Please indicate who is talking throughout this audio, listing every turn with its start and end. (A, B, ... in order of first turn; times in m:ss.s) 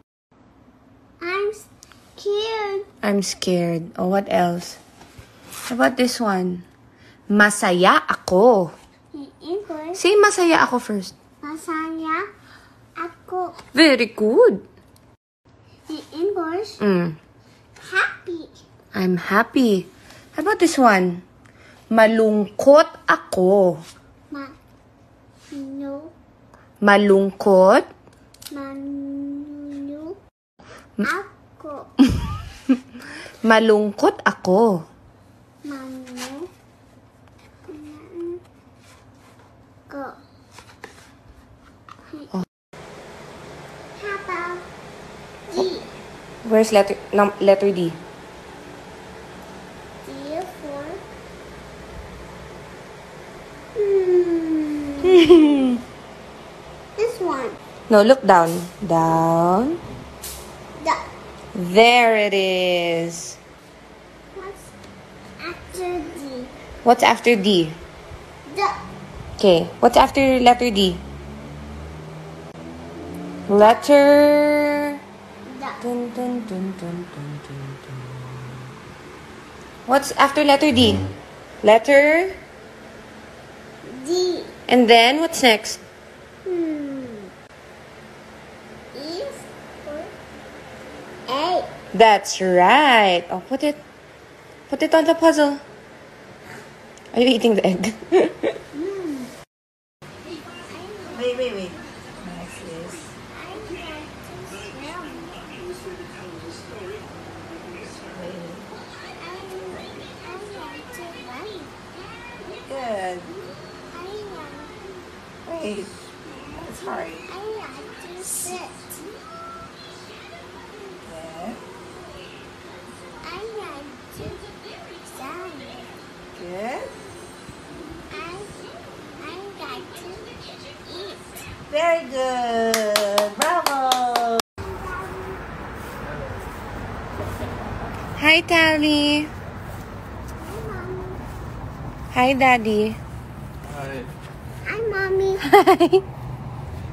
0:01.2-0:02.9 A
0:03.0-0:04.8 B
0:05.7-0:06.6 B
0:07.3-0:08.7 B
0:09.1-0:10.0 A
0:10.0-0:11.1 B
0:11.4-0:12.2 A
0:13.0-0:13.6 A
0:13.7-0:14.6 B
0:15.9-0:16.8 A
0:16.8-0:17.2 B
0:17.8-0:18.5 A
0:18.9-0:21.2 B
0:21.9-0:23.8 B
0:25.5-0:26.1 A
0:26.8-0:27.8 B
0:28.5-0:30.2 A
0:31.0-0:31.9 A
0:33.4-0:34.8 B
0:35.6-0:36.5 A
0:37.6-0:38.4 A
0:39.9-0:40.2 A
0:44.0-0:44.6 A
0:45.5-0:45.9 A
0:46.4-0:48.0 B
0:50.0-0:51.0 A
0:53.7-0:55.5 A
0:55.1-0:55.8 B
0:57.0-0:57.6 A
0:57.9-0:59.8 B
1:01.5-1:03.4 B
1:04.3-1:04.7 A
1:05.4-1:06.5 A
1:06.8-1:07.8 B
1:08.5-1:08.8 A
1:09.4-1:11.0 B
1:13.5-1:15.0 B
1:15.4-1:15.8 A
1:15.8-1:17.6 B
1:19.9-1:21.0 B
1:21.6-1:22.4 B
1:23.8-1:24.5 A
1:24.7-1:25.8 B
1:26.4-1:27.3 A
1:28.9-1:30.1 A
1:31.3-1:31.7 A
1:31.9-1:33.8 B
1:34.7-1:35.6 B
1:37.1-1:38.6 B
1:38.8-1:39.3 A
1:40.5-1:41.7 A
1:41.1-1:43.1 C
1:43.3-1:45.6 A
1:45.8-1:46.9 C
1:47.6-1:48.7 C
1:49.2-1:51.9 A
1:52.6-1:53.3 C
1:53.9-1:54.8 A
1:55.4-1:57.2 C
1:57.2-1:59.0 A
2:01.0-2:01.6 C
2:03.2-2:06.0 A
2:06.4-2:06.9 C
2:08.1-2:11.5 A
2:11.7-2:14.4 C
2:14.6-2:15.4 A
2:18.2-2:19.3 B
2:20.4-2:21.2 A
2:22.1-2:23.0 B
2:24.6-2:25.4 A
2:25.4-2:26.0 B